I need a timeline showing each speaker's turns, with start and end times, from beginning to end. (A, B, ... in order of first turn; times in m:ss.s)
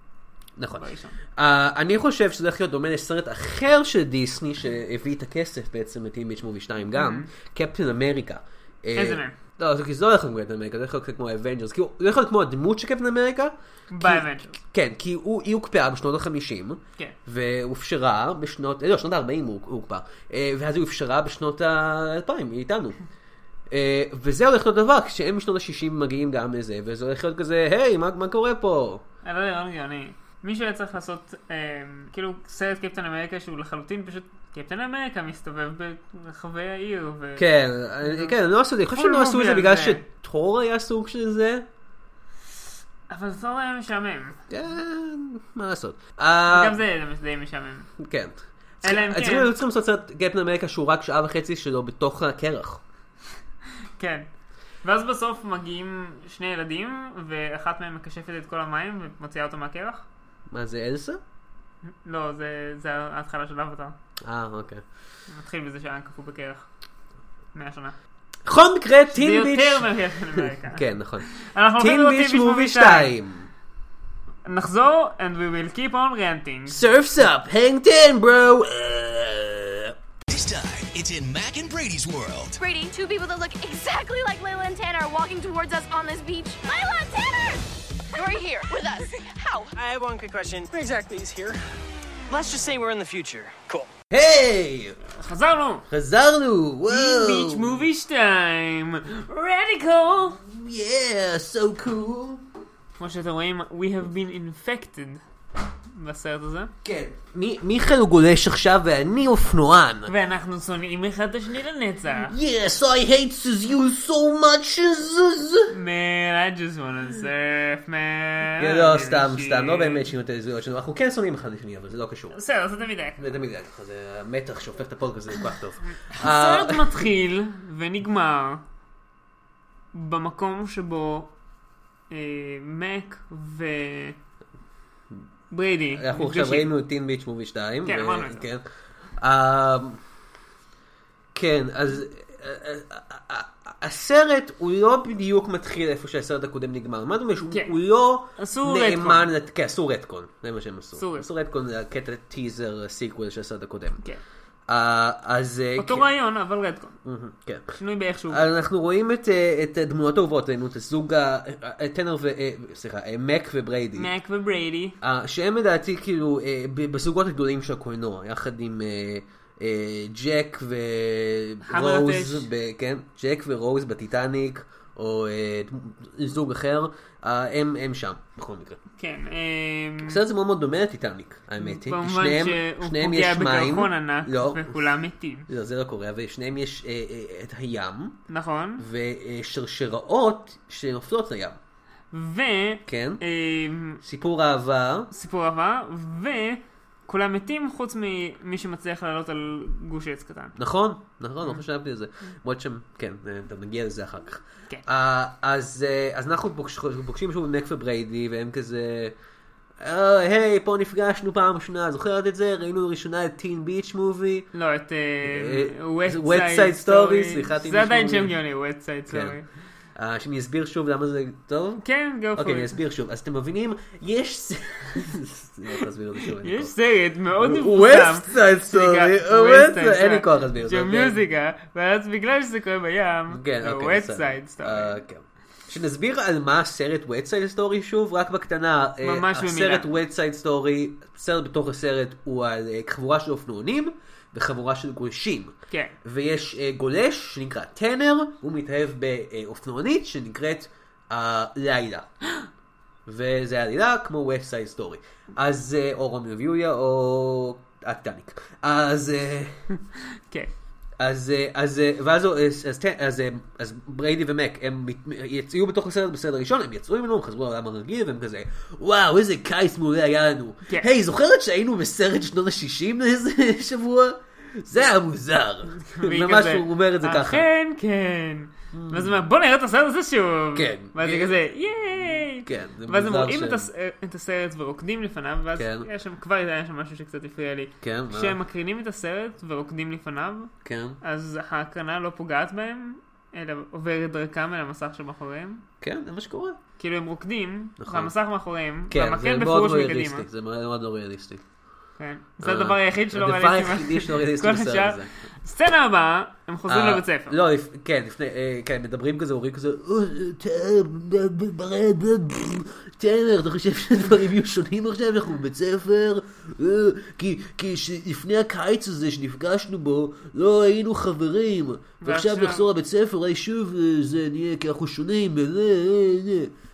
0:00.6-0:23.0 A
0:00.8-0:01.2 B
0:07.0-0:07.3 B
0:09.0-0:09.4 B
0:13.9-0:14.6 B
0:23.7-0:29.0 A
0:29.2-0:37.5 B
0:37.4-0:41.6 A
0:38.0-0:40.0 B
0:43.1-0:44.4 B
0:44.5-0:46.8 A
0:46.5-0:47.9 B
0:48.0-0:52.8 A
0:48.8-0:49.5 B
0:54.0-0:54.3 B
0:54.8-1:00.0 B
1:00.5-1:01.2 A
1:01.8-1:04.0 B
1:04.2-1:04.8 A
1:05.3-1:06.7 B
1:07.5-1:08.0 B
1:08.5-1:09.9 A
1:09.1-1:13.1 B
1:10.5-1:11.3 A
1:11.8-1:13.5 A
1:14.4-1:16.8 B
1:16.7-1:20.0 A
1:20.3-1:22.6 C
1:22.6-1:29.8 D
1:29.8-1:31.6 E
1:32.3-1:33.9 E
1:34.1-1:35.0 A
1:35.1-1:35.9 B
1:35.9-1:37.8 A
1:36.9-1:40.4 B
1:40.4-1:42.4 A
1:43.0-1:45.2 B
1:45.9-1:46.7 B
1:46.8-1:50.1 A
1:50.1-1:52.4 B
1:52.3-1:55.7 A
1:55.7-2:00.1 B
1:58.6-2:02.4 A
2:02.3-2:03.2 B
2:03.2-2:07.0 A
2:05.9-2:08.6 B
2:09.9-2:11.3 B
2:12.1-2:14.2 B
2:15.5-2:16.7 B
2:16.0-2:18.6 A
2:17.8-2:18.5 B
2:19.2-2:20.0 A
2:21.4-2:34.0 A
2:27.5-2:27.7 B
2:28.4-2:29.3 B
2:31.0-2:31.3 B
2:34.7-2:36.1 A
2:35.8-2:37.0 B
2:37.0-2:37.7 A
2:37.8-2:38.4 B
2:38.3-2:44.1 A
2:44.0-2:45.0 B
2:45.0-2:58.8 A
2:51.7-2:52.5 B
2:59.0-3:00.2 B
3:00.0-3:04.7 A
3:01.6-3:05.5 B
3:05.5-3:08.2 A
3:08.3-3:08.8 B
3:08.8-3:11.6 A
3:12.1-3:14.0 B
3:12.9-3:13.2 A
3:14.0-3:15.1 A
3:15.1-3:20.5 B
3:20.6-3:29.1 A
3:29.8-3:34.5 A
3:34.5-3:39.5 B
3:35.2-3:38.4 A
3:39.1-3:39.4 A
3:40.0-3:46.7 A
3:41.8-3:42.7 B
3:46.3-3:55.0 B
3:47.4-3:51.2 A
3:53.3-4:12.1 A
3:59.0-3:59.9 B
4:13.1-4:19.6 A
4:21.0-4:37.5 A
4:35.8-4:55.6 B
4:38.7-4:39.2 A
4:40.5-4:41.4 A
4:42.4-4:43.7 A
4:45.6-4:45.9 A
4:47.8-4:48.4 A
4:50.6-4:51.0 A
4:55.8-4:56.6 A
4:56.8-5:00.3 B
4:57.8-4:58.1 A
4:58.9-5:01.4 A
5:02.0-5:07.4 B
5:02.4-5:05.1 A
5:06.7-5:26.5 A
5:22.0-5:22.7 B